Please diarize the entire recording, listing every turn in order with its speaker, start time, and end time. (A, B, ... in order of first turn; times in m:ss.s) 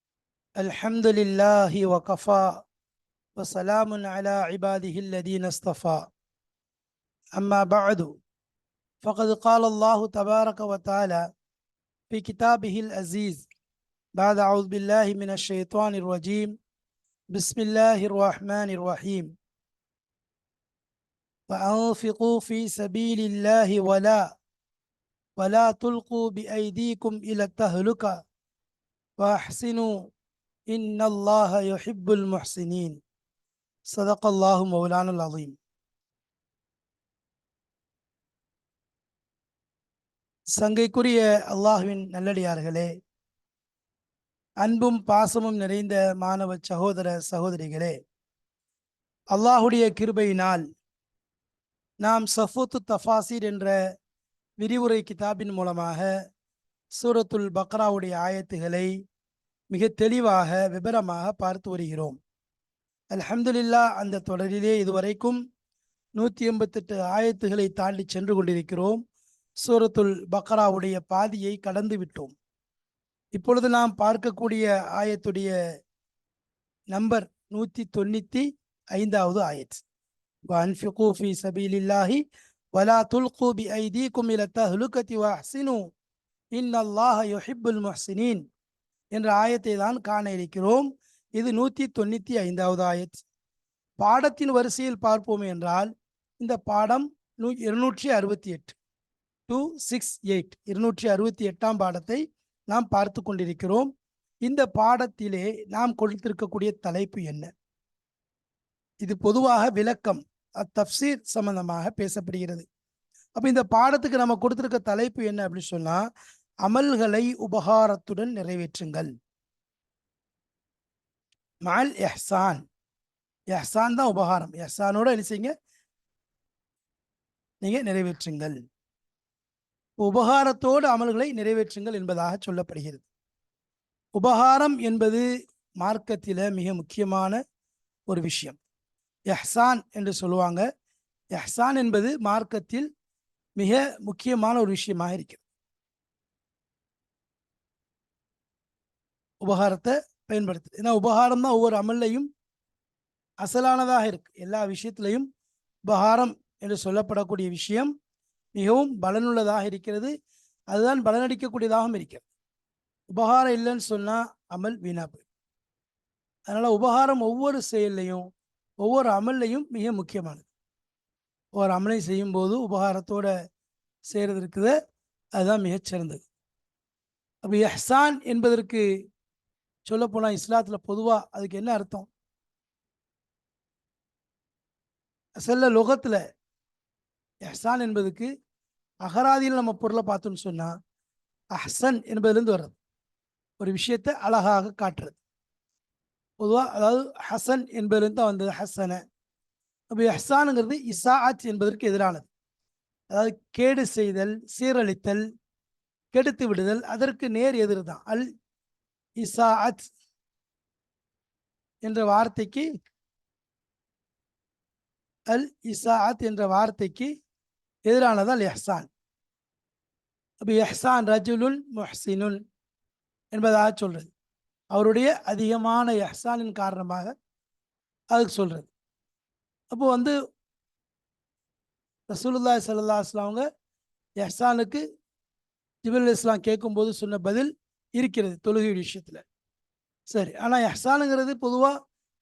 0:00.6-0:02.6 A
0:03.4-0:06.0 A
0:07.4-0:08.1 A
0:09.0-0:11.2 A
0:12.1-0:13.4 A
0:14.2-0:16.5 A
0:17.3-0:19.3 A
0:21.5-0:24.2 A
0:25.4-0:28.1 A
0:29.2-0:29.9 A
0:30.7-0:33.0 A
0:33.9-0:35.6 A
0:40.6-0:42.9 A
0:44.6-0:48.0 A
0:49.3-0:50.6 A
0:52.0-0:53.7 A
0:54.6-0:56.1 A
0:57.0-0:58.9 A
0:59.7-1:02.2 A
1:03.1-1:05.4 A
1:06.2-1:09.0 A
1:09.6-1:12.3 A
1:13.4-1:15.5 A
1:16.9-1:19.8 A
1:20.5-1:22.2 A
1:22.7-1:25.8 A
1:26.5-1:28.4 A
1:29.1-1:33.2 A
1:34.0-1:38.8 A
1:39.5-1:43.9 A
1:44.4-1:47.5 A
1:49.0-1:52.6 A
1:53.4-1:56.0 A
1:56.6-1:59.1 A
2:01.6-2:02.6 A
2:03.5-2:05.5 A
2:07.6-2:08.6 A
2:10.0-2:13.0 A
2:14.2-2:15.2 A
2:15.8-2:17.4 A
2:18.1-2:18.6 A
2:19.3-2:20.6 A
2:21.3-2:22.9 A
2:23.6-2:25.4 A
2:29.4-2:32.3 A
2:33.4-2:35.3 A
2:35.9-2:37.9 A
2:38.5-2:40.1 A
2:40.7-2:42.2 A
2:43.1-2:45.2 A
2:46.5-2:48.2 A
2:48.8-2:50.4 A
2:51.5-2:53.3 A
2:54.1-2:54.7 A
2:55.4-2:56.2 A
2:57.4-2:58.8 A
2:59.8-3:02.1 A
3:05.4-3:06.2 A
3:07.4-3:08.3 A
3:09.0-3:10.7 A
3:11.6-3:12.8 A
3:13.6-3:15.2 A
3:16.4-3:19.0 A
3:19.9-3:22.3 A
3:23.1-3:25.2 A
3:26.1-3:28.3 A
3:29.2-3:29.9 A
3:31.8-3:32.7 A
3:35.3-3:37.1 A
3:37.9-3:38.9 A
3:40.4-3:42.4 A
3:43.3-3:44.1 A
3:44.7-3:47.1 A
3:48.1-3:48.7 A
3:49.7-3:50.1 A
3:52.1-3:53.4 A
3:54.2-3:54.8 A
3:55.8-3:59.2 A
4:00.1-4:01.7 A